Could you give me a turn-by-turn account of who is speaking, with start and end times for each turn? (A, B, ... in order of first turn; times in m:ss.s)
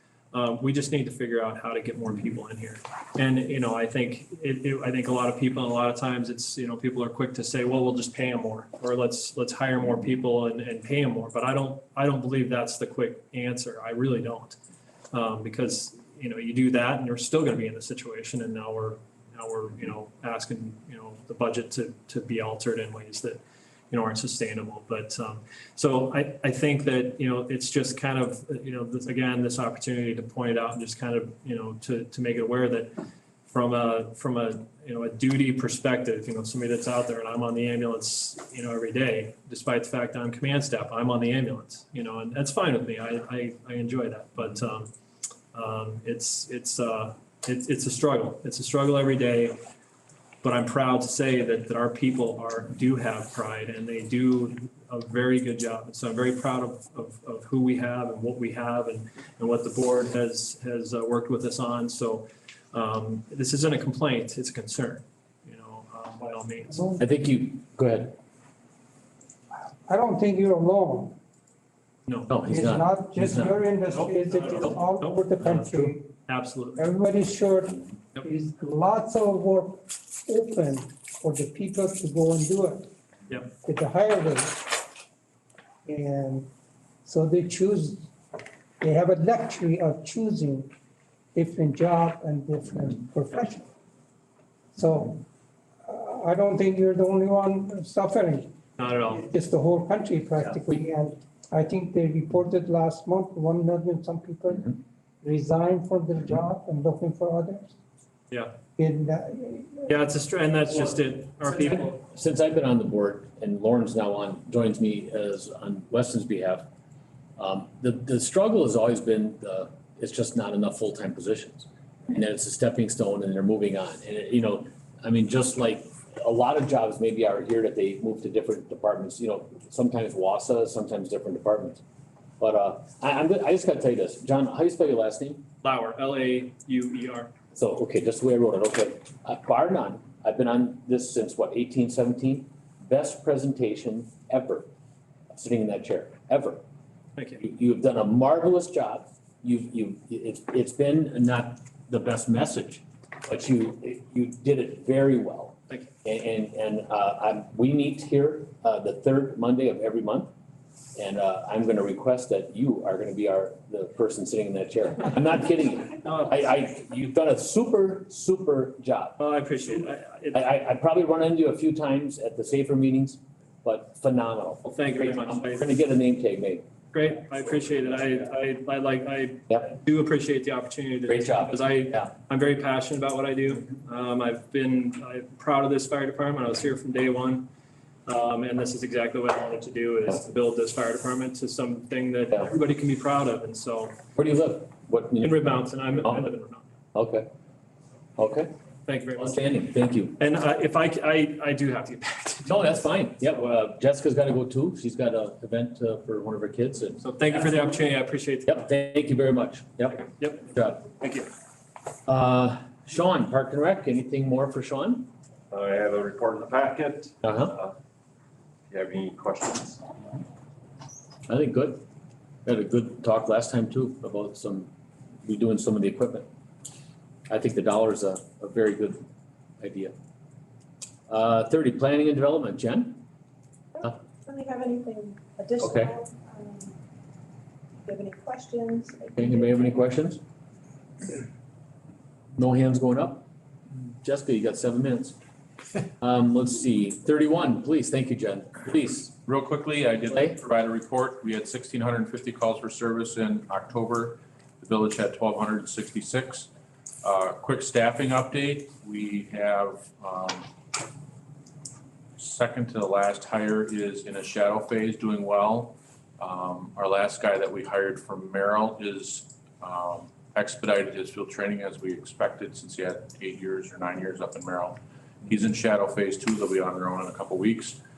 0:00.3-0:14.6 A
0:15.1-0:32.9 A
0:33.5-0:44.9 A
0:45.5-0:49.6 A
0:50.4-1:06.9 A
1:06.7-1:07.0 B
1:07.0-1:08.2 C
1:09.9-1:11.2 B
1:12.0-1:12.3 A
1:12.3-1:13.6 C
1:12.5-1:16.1 B
1:13.9-1:16.9 A
1:16.8-1:22.9 B
1:23.6-1:24.8 B
1:25.8-1:26.5 B
1:27.0-1:28.1 B
1:28.8-1:30.7 B
1:31.3-1:33.6 B
1:34.7-1:35.2 B
1:35.9-1:38.5 B
1:38.8-1:39.3 A
1:39.2-1:47.7 B
1:48.8-1:49.9 B
1:49.9-1:52.0 A
1:52.0-1:56.7 C
1:57.4-2:11.8 C
2:12.4-2:15.4 C
2:15.6-2:17.3 A
2:17.5-2:24.7 C
2:25.3-2:26.6 C
2:27.2-2:27.4 A
2:27.4-2:40.3 C
2:41.0-2:49.2 C
2:46.0-2:46.3 A
2:49.2-2:50.4 A
2:50.3-2:56.6 C
2:54.6-2:55.7 A
2:56.9-3:07.5 A
3:01.1-3:02.1 C
3:08.0-3:14.0 A
3:14.2-3:16.3 C
3:15.2-3:16.7 A
3:16.9-3:17.3 C
3:18.2-3:18.5 C
3:18.8-3:19.5 A
3:19.2-3:20.2 C
3:20.2-3:22.8 A
3:22.4-3:27.0 C
3:27.0-3:28.6 A
3:28.5-3:30.8 C
3:30.0-3:31.3 A
3:32.0-3:35.1 C
3:35.5-3:37.7 D
3:37.2-3:37.5 C
3:38.7-3:39.9 D
3:41.3-3:41.8 C
3:42.4-3:44.7 C
3:45.2-3:46.3 C
3:47.3-3:49.0 C
3:49.6-3:49.9 C
3:51.1-3:53.0 C
3:53.8-3:56.7 E
3:55.6-3:56.0 C
3:57.8-3:59.1 E
3:59.2-4:00.2 C
4:02.4-4:03.3 C
4:03.9-4:05.2 C
4:06.0-4:09.2 C
4:09.2-4:16.5 F
4:10.1-4:10.4 C
4:17.0-4:20.5 F
4:22.2-4:37.8 F